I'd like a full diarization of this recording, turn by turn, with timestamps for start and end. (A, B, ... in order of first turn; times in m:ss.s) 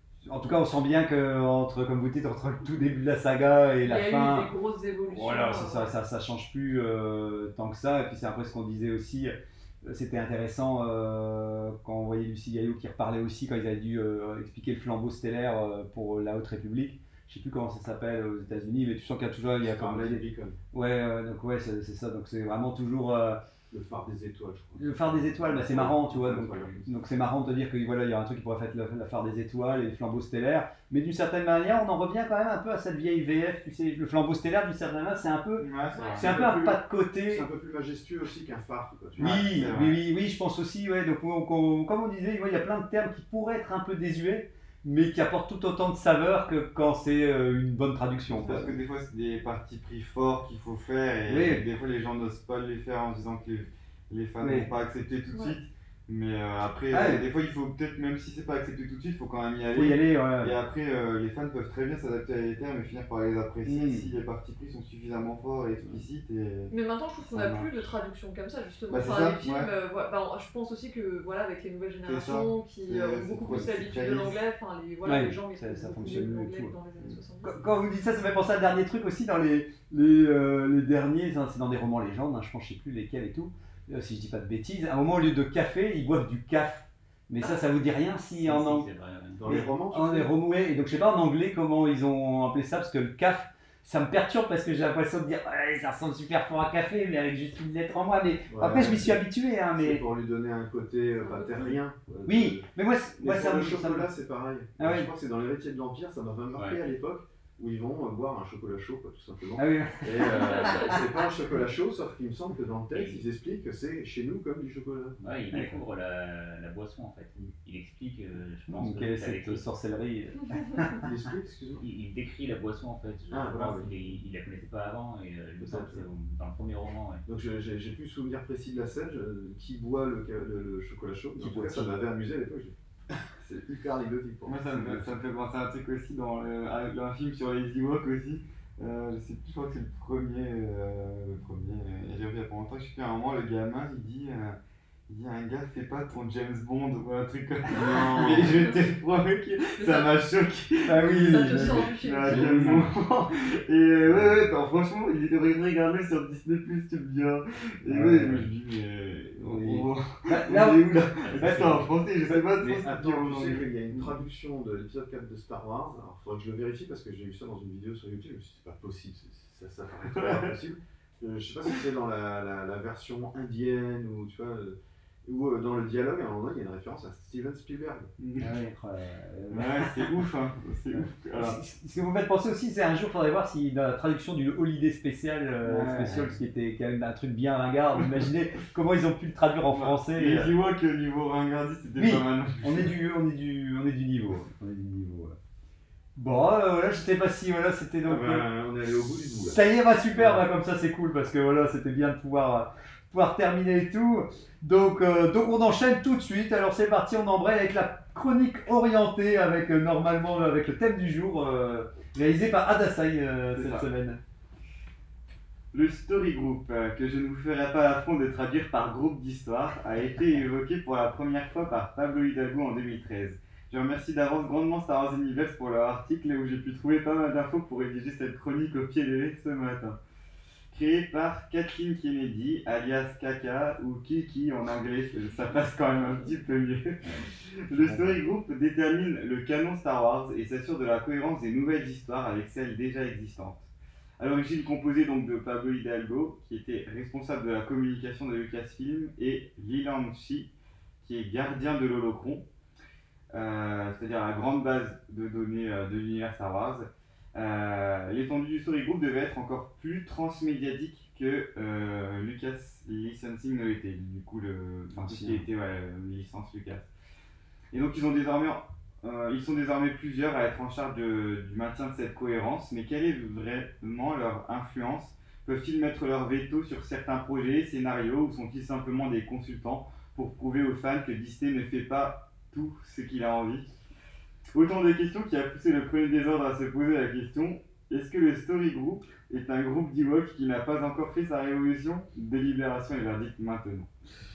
0:00.2-0:04.5 A
0:03.8-0:05.9 B
0:05.1-0:23.4 A
0:19.6-0:20.6 C
0:23.7-0:27.0 C
0:24.8-0:37.5 A
0:35.6-0:36.3 D
0:35.9-0:36.3 B
0:36.2-0:39.6 C
0:39.2-0:48.8 A
0:39.2-0:40.0 D
0:48.3-1:06.7 D
0:51.3-0:51.7 A
0:54.4-0:54.7 A
0:55.3-0:55.6 B
0:56.9-0:57.2 A
0:59.7-1:00.6 A
1:03.6-1:04.1 A
1:06.7-1:17.6 B
1:07.3-1:07.7 D
1:08.9-1:09.7 D
1:12.0-1:14.4 D
1:15.0-1:16.7 A
1:17.4-1:28.9 A
1:28.4-1:29.4 E
1:29.4-1:30.3 C
1:29.4-1:40.0 A
1:38.5-1:39.2 C
1:39.8-1:42.7 C
1:41.2-1:41.8 B
1:42.3-1:44.1 A
1:43.2-1:55.2 C
1:44.8-1:45.1 A
1:46.6-1:46.8 E
1:49.6-1:51.0 A
1:52.9-1:53.2 E
1:55.2-1:59.6 E
1:55.5-1:55.8 A
1:58.7-2:00.9 A
2:01.0-2:01.8 C
2:01.8-2:07.3 E
2:03.3-2:03.9 C
2:05.6-2:06.0 C
2:07.3-2:12.7 C
2:11.4-2:12.0 A
2:13.4-2:15.1 C
2:14.4-2:24.6 D
2:25.1-2:44.1 D
2:27.9-2:28.2 A
2:29.8-2:30.2 B
2:30.9-2:32.8 A
2:31.0-2:32.6 B
2:37.9-2:38.5 A
2:39.4-2:41.9 A
2:41.2-2:41.6 E
2:42.5-2:58.1 C
2:50.2-2:50.5 D
2:58.2-2:58.6 D
2:58.4-3:00.2 A
2:59.5-3:01.6 D
3:00.9-3:10.5 A
3:05.6-3:06.3 D
3:09.7-3:13.0 D
3:12.0-3:15.4 A
3:16.2-3:18.5 A
3:18.1-3:19.6 C
3:19.4-3:34.2 A
3:33.5-3:33.9 D
3:35.7-3:50.0 D
3:50.7-4:10.5 D
3:57.8-3:58.2 A
4:11.0-4:12.4 D
4:13.3-4:26.9 D
4:25.0-4:25.4 A
4:27.7-4:43.7 D
4:44.5-4:53.9 D